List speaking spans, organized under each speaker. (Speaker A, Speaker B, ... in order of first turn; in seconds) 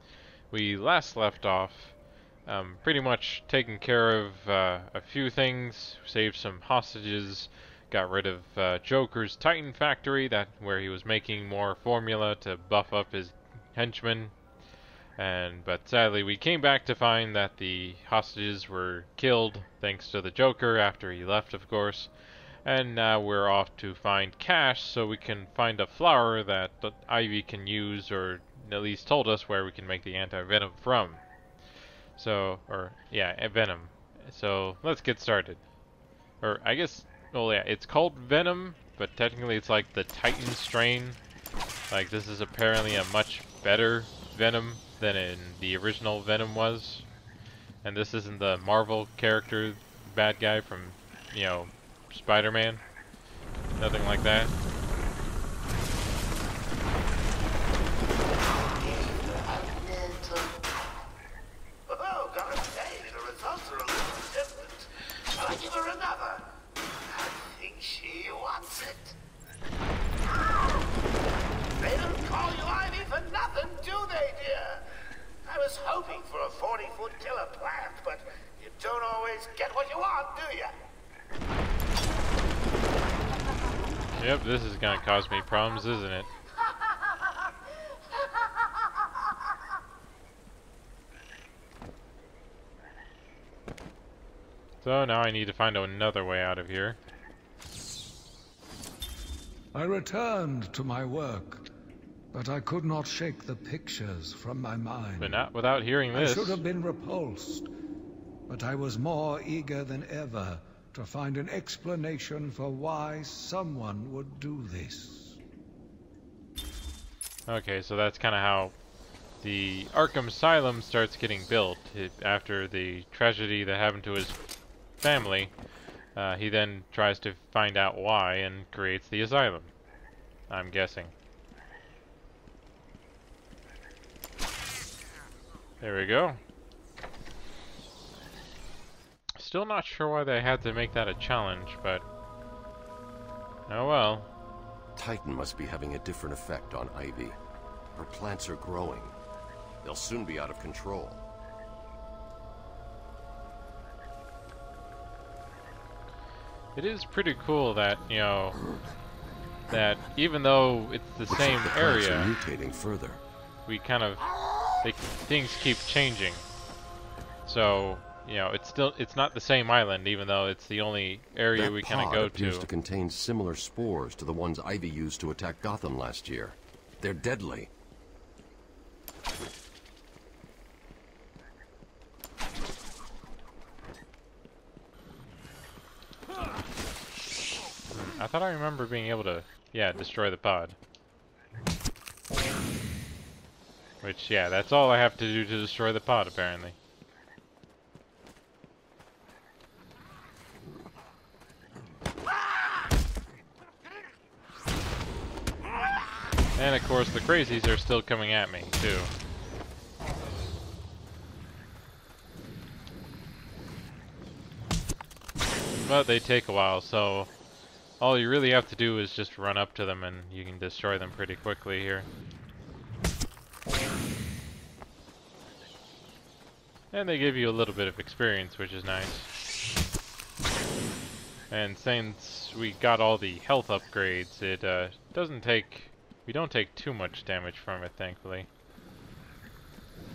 Speaker A: 0.5-1.9, 2.5-14.3, 15.2-22.1, 22.6-31.2, 32.2-35.6, 36.4-41.2, 41.9-47.1, 47.8-52.8, 53.8-54.5, 84.2-86.3, 94.8-97.0, 105.2-106.6, 117.5-118.8, 119.4-124.4, 125.0-125.5, 126.2-129.7, 130.5-131.1, 135.8-136.4, 139.4-142.1, 143.7-144.3, 156.8-158.6, 159.7-162.3, 163.7-164.3, 164.8-166.5, 167.5-172.7, 187.9-190.8, 194.0-196.8, 206.6-209.1, 215.8-217.3, 218.0-222.1, 226.9-229.3, 231.5-238.5
Speaker B: 58.4-60.6, 61.9-69.2, 71.8-74.9, 75.5-80.7
Speaker C: 99.7-101.7, 102.3-105.4, 106.1-107.7, 108.5-115.4
Speaker D: 145.0-147.4, 147.9-149.2, 149.8-151.2, 161.3-163.2, 171.6-177.7